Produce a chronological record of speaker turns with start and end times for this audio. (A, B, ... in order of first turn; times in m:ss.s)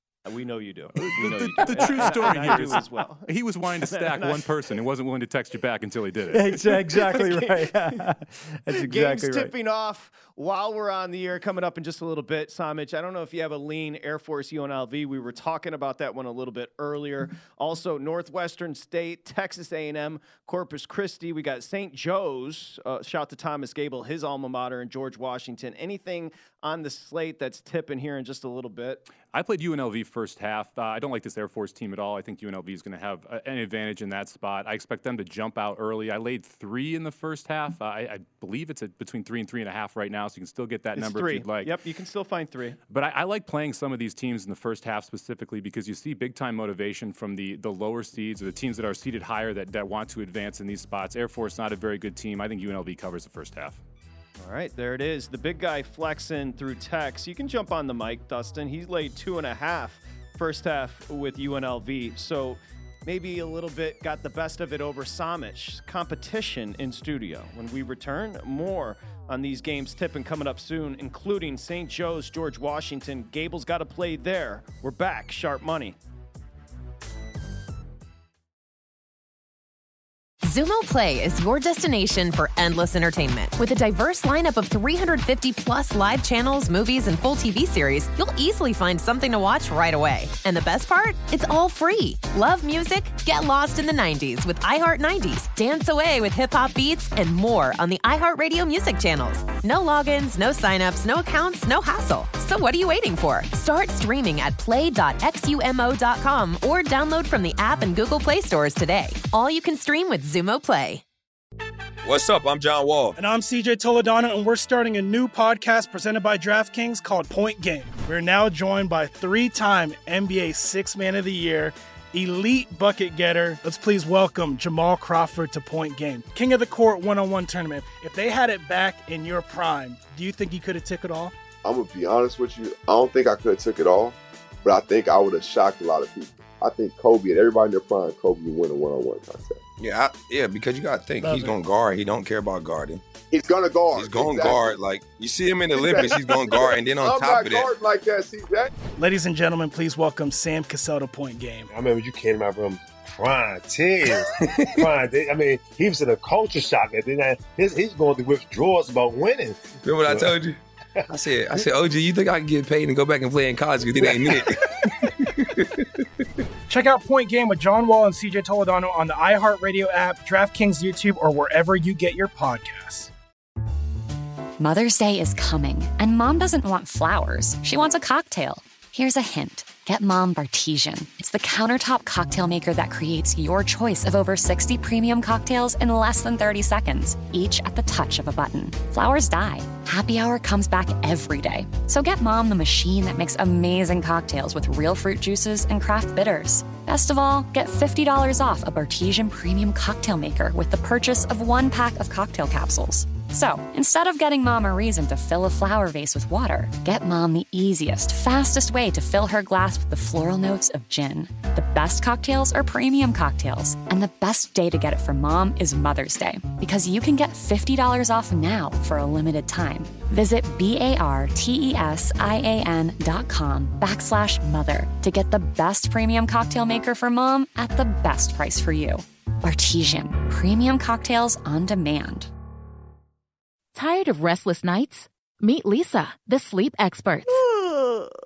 0:00.3-0:04.6 A
0:01.0-0:06.6 B
0:01.3-0:02.8 C
0:06.3-0:09.5 C
0:07.0-0:08.0 A
0:08.7-0:29.0 A
0:29.3-0:41.7 B
0:41.0-0:42.8 A
0:42.9-0:53.8 B
0:54.4-1:16.0 A
1:20.4-1:51.0 D
1:52.0-1:53.2 E
1:53.2-2:11.3 F
2:11.6-2:19.6 G
2:19.8-2:23.0 E
2:21.2-2:21.6 F
2:23.3-2:24.7 G
2:23.9-2:27.7 E
2:25.7-2:28.7 G
2:29.0-2:31.7 F
2:31.7-2:40.4 H
2:39.8-2:45.6 E
2:44.0-2:44.4 H
2:46.7-2:53.1 F
2:54.6-3:52.3 I
3:53.7-3:57.4 J